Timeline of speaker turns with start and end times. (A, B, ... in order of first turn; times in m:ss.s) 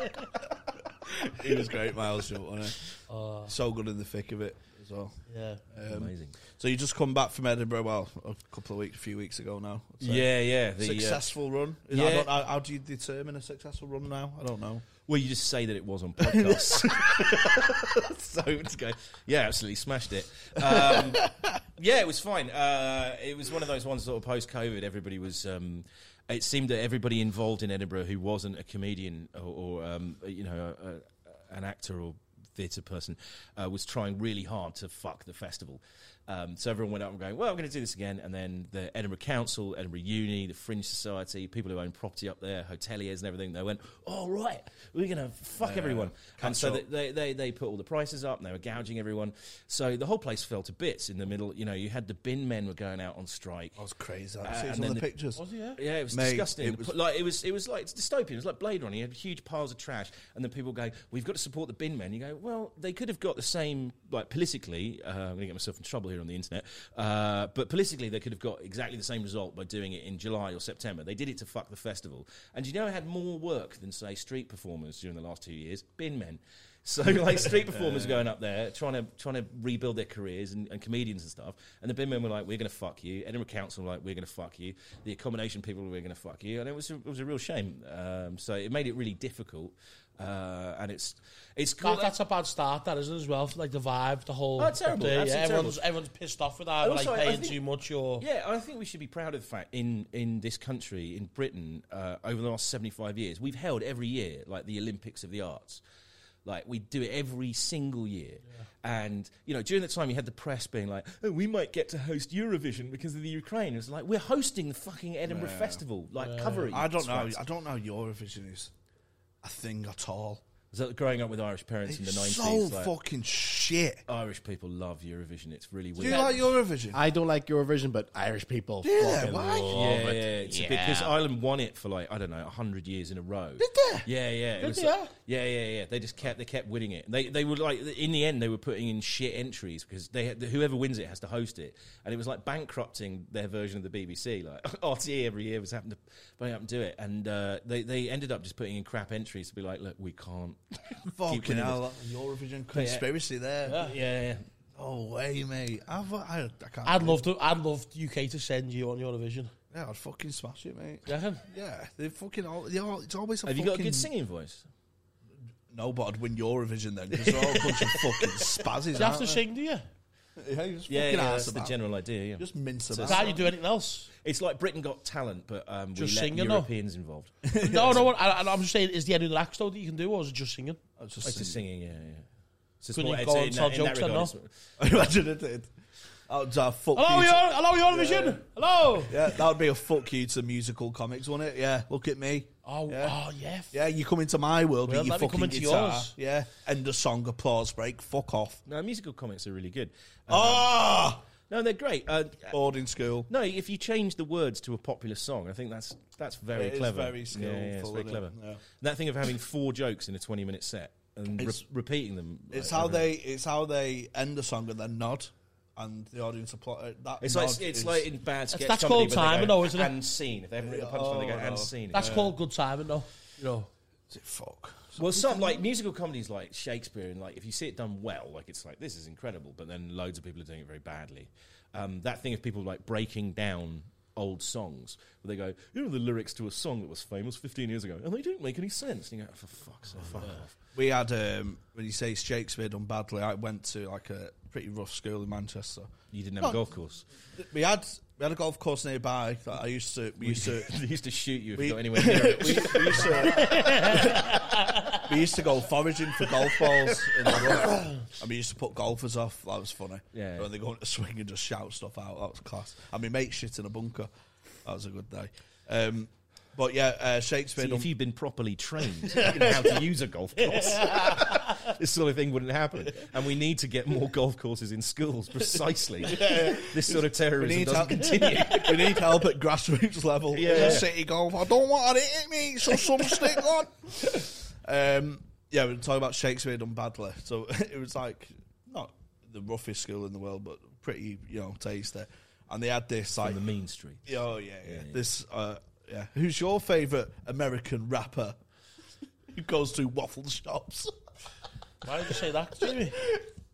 0:01.0-0:02.9 A
0:03.1-0:03.5 B
0:03.5-0:05.2 A
0:05.3-0:05.6 B
0:05.7-0:14.8 A
0:05.9-0:06.4 C
0:10.0-0:11.2 C
0:11.9-0:12.3 C
0:15.1-0:53.8 C
0:16.3-0:17.9 A
0:20.9-0:21.3 A
0:45.6-0:46.8 A
0:53.8-0:55.4 A
0:54.4-0:55.1 C
0:55.4-0:55.8 B
0:55.8-1:32.1 C
0:56.1-0:56.9 A
1:17.6-1:18.2 A
1:31.8-1:38.2 B
1:34.6-1:35.8 C
1:36.8-1:37.6 C
1:38.2-1:45.8 C
1:46.4-1:57.4 C
1:55.3-1:55.8 A
1:56.2-1:56.7 B
1:56.7-1:58.7 A
1:59.4-2:00.4 A
2:00.7-2:02.9 C
2:01.9-2:04.0 A
2:04.1-2:06.5 C
2:06.0-2:07.0 A
2:06.0-2:06.4 B
2:06.9-2:11.1 D
2:08.8-2:09.9 A
2:09.7-2:31.8 C
2:13.6-2:14.1 A
2:14.6-2:15.1 B
2:31.1-2:33.8 A
2:32.7-2:33.1 C
2:33.7-2:34.0 B
2:33.7-2:34.4 C
2:34.8-2:37.3 A
2:36.8-2:39.5 B
2:39.7-2:44.1 A
2:41.1-2:41.4 B
2:43.4-2:44.7 C
2:45.7-2:49.4 A
2:47.2-2:48.5 C
2:49.0-2:49.8 B
2:50.4-2:51.8 A
2:50.9-2:53.4 C
2:52.4-2:53.4 A
2:53.0-2:54.1 B
2:54.2-2:57.3 C
2:56.0-2:56.7 B
2:57.4-2:58.1 A
2:57.6-3:01.4 B
3:01.0-3:01.6 A
3:01.2-3:02.2 C
3:02.8-3:04.5 C
3:03.0-3:04.3 B
3:04.8-3:05.7 A
3:06.3-3:08.4 A
3:07.0-3:09.4 B
3:09.1-3:13.2 A
3:12.7-3:13.7 B
3:13.7-3:18.6 A
3:14.9-3:16.1 B
3:18.7-3:20.8 C
3:20.3-3:21.2 A
3:21.5-3:22.6 C
3:22.5-3:23.3 A
3:23.3-3:33.1 C
3:26.5-3:28.6 A
3:31.4-3:31.6 A
3:32.5-3:38.1 A
3:37.2-3:42.2 C
3:38.5-3:39.9 B
3:40.6-3:42.3 A
3:41.9-3:43.7 B
3:44.1-3:45.5 A
3:45.0-4:00.5 C
4:00.7-4:06.6 A
4:06.1-4:07.1 C
4:07.3-4:10.7 A
4:10.2-4:14.1 C
4:11.6-4:24.1 A
4:13.1-4:15.1 B
4:20.1-4:20.5 C
4:24.6-4:27.9 A
4:27.6-4:39.2 C
4:29.1-4:29.7 A
4:30.5-4:31.7 B
4:36.0-4:53.4 A
4:40.3-4:40.9 C
4:53.2-4:55.0 C
4:54.0-4:58.4 A
4:59.3-5:00.9 A
5:01.8-5:03.0 B
5:03.0-5:03.2 A